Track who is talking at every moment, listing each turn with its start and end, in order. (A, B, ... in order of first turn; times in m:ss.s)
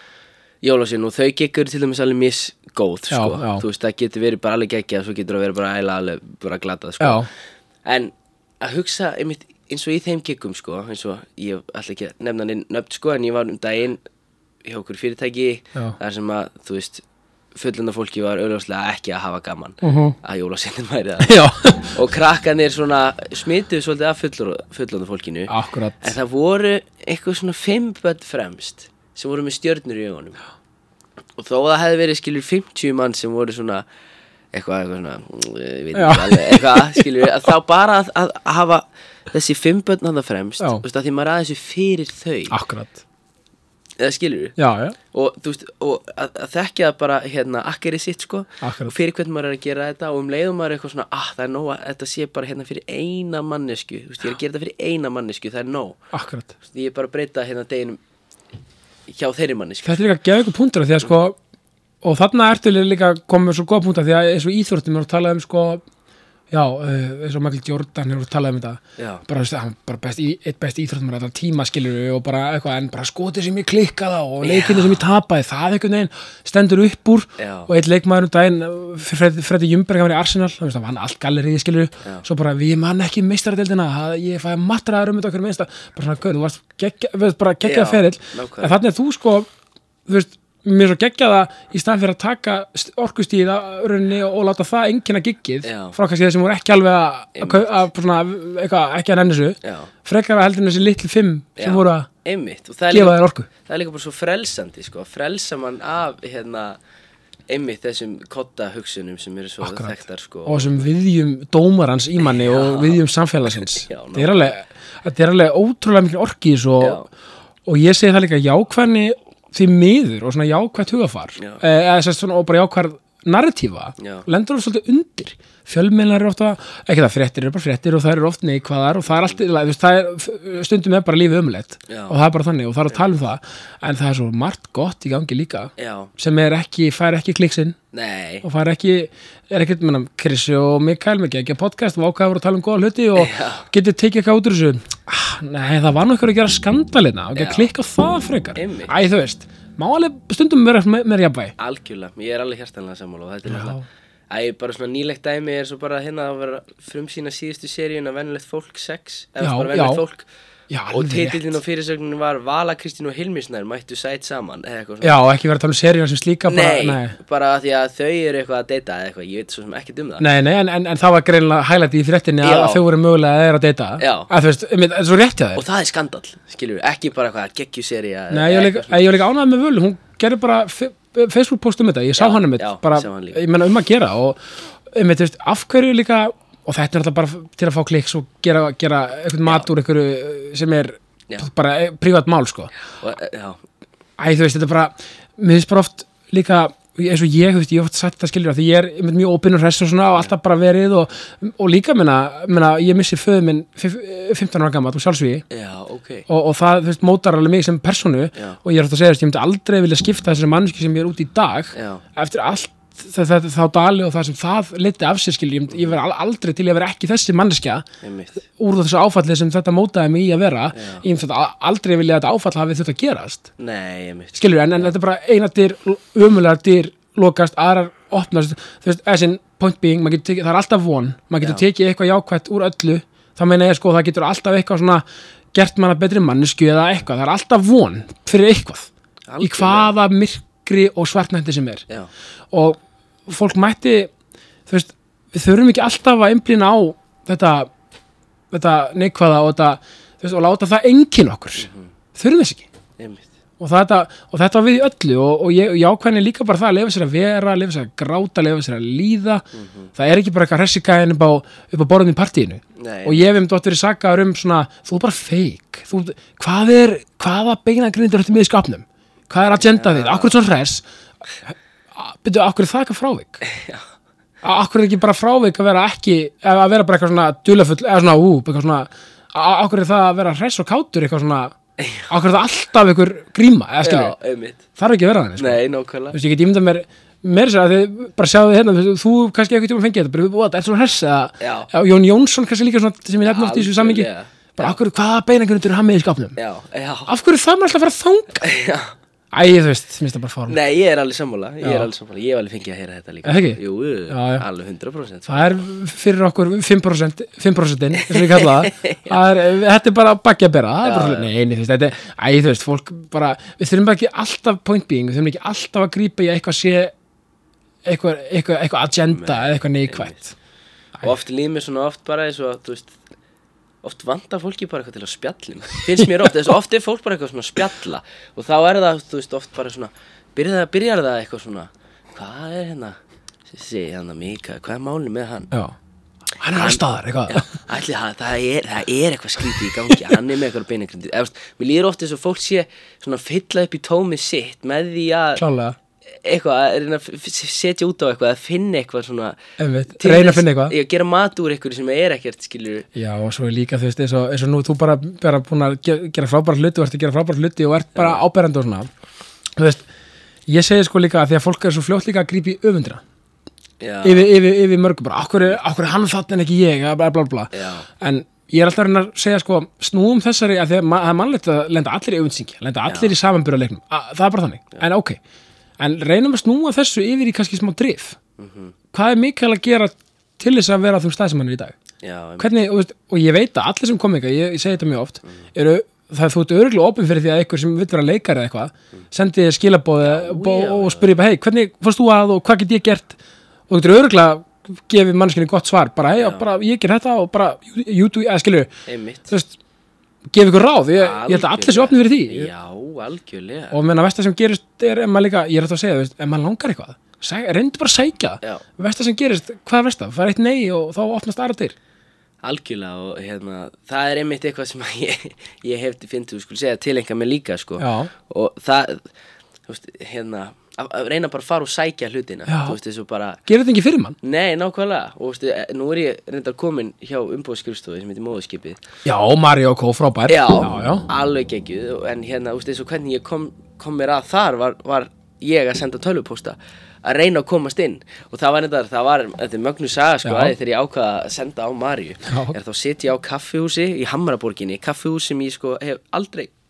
0:00.6-0:07.2 A
0:03.1-0:03.6 B
0:07.0-0:07.3 B
0:07.8-0:14.0 A
0:14.6-0:17.0 A
0:17.5-0:30.4 A
0:19.8-0:20.2 B
0:21.2-0:21.9 B
0:25.5-0:26.1 B
0:31.4-0:33.8 A
0:34.5-0:42.5 A
0:35.9-0:37.1 B
0:42.5-0:43.0 B
0:44.0-0:44.5 A
0:44.6-0:45.0 B
0:45.1-0:56.0 A
0:48.6-0:48.9 B
0:56.1-0:56.5 B
0:56.6-0:58.0 A
0:59.1-1:00.0 A
0:59.8-1:01.4 B
1:02.0-1:05.8 B
1:06.5-1:29.5 B
1:09.0-1:09.2 A
1:14.4-1:15.0 A
1:17.4-1:17.7 A
1:27.6-1:28.8 A
1:30.1-1:42.1 B
1:35.6-1:35.9 A
1:37.4-1:37.8 A
1:39.6-1:39.9 A
1:41.6-1:46.8 A
1:42.9-1:43.5 B
1:47.5-1:50.8 A
1:49.6-1:57.0 B
1:52.3-1:53.0 A
1:53.9-1:54.5 A
1:56.8-1:57.0 A
1:57.6-2:17.8 B
2:04.0-2:04.2 A
2:11.9-2:12.2 A
2:15.8-2:16.1 A
2:17.9-2:18.4 A
2:18.4-2:31.5 B
2:23.2-2:23.7 A
2:27.4-2:27.7 A
2:28.6-2:28.9 A
2:31.6-2:33.8 A
2:33.4-2:33.8 B
2:34.3-2:40.3 A
2:39.4-2:40.0 B
2:40.7-2:41.6 B
2:40.9-2:45.2 A
2:45.0-2:47.2 B
2:46.5-2:50.2 A
2:50.2-2:55.6 B
2:52.4-2:52.8 A
2:54.0-2:54.3 A
2:55.6-2:59.0 A
2:58.3-3:12.7 B
3:02.2-3:03.4 A
3:13.0-3:13.6 A
3:14.2-3:25.4 B
3:25.5-3:26.2 A
3:26.3-3:37.8 B
3:31.7-3:32.0 A
3:35.7-3:36.0 A
3:38.0-3:38.4 A
3:38.4-3:43.5 B
3:40.7-3:41.0 A
3:43.6-3:44.9 A
3:44.4-3:58.9 B
3:59.3-3:59.9 A
3:59.4-4:01.8 B
4:02.5-4:04.1 B
4:04.7-4:07.7 B
4:08.5-4:12.6 B
4:11.6-4:11.9 A
4:13.0-4:13.3 A
4:13.6-4:19.4 B
4:19.5-4:19.9 A
4:19.9-4:30.8 B
4:22.8-4:23.3 A
4:29.5-4:30.3 A
4:31.5-4:33.5 B
4:33.5-4:33.8 A
4:34.4-4:41.6 B
4:41.8-4:42.1 A
4:42.1-4:44.1 B
4:43.8-4:44.6 A
4:44.8-4:45.6 B
4:45.4-4:46.2 A
4:46.1-4:56.4 B
4:51.4-4:51.7 A
4:53.3-4:54.8 A
4:56.4-4:57.1 A
4:57.1-4:58.5 B
4:58.4-4:59.0 A
4:59.3-5:00.6 B
5:00.5-5:05.4 A
5:01.6-5:01.9 B
5:03.2-5:04.4 B
5:05.3-5:16.9 B
5:08.0-5:09.2 A
5:10.8-5:11.3 A
5:17.8-5:20.3 B
5:19.1-5:20.1 A
5:21.0-5:23.0 A
5:23.8-5:35.5 A
5:36.4-5:37.6 B
5:36.6-5:45.4 A
5:45.4-5:45.8 B
5:46.1-5:49.4 A
5:49.6-5:50.7 B
5:50.0-5:52.9 A
5:52.9-5:58.9 B
5:58.0-5:58.2 A
5:59.6-5:59.8 B
6:00.5-6:03.0 B
6:03.8-6:04.3 A
6:04.0-6:15.2 B
6:07.5-6:07.8 A
6:12.9-6:13.1 A
6:15.8-6:18.2 B
6:18.4-6:18.7 A
6:18.9-6:21.8 B
6:22.0-6:22.6 A
6:22.4-6:33.2 B
6:30.0-6:31.2 A
6:33.7-6:38.7 B
6:36.2-6:36.4 A
6:38.9-6:39.3 A
6:39.3-6:39.6 B
6:40.3-6:42.5 B
6:41.0-6:43.8 A
6:43.7-6:51.7 B
6:52.4-6:59.1 A
6:57.8-6:58.1 B
6:59.7-7:03.4 A
7:02.5-7:02.8 B
7:03.4-7:04.2 B
7:04.2-7:08.8 A
7:09.0-7:11.0 B
7:10.3-7:26.5 A
7:20.2-7:20.5 B
7:22.3-7:22.5 B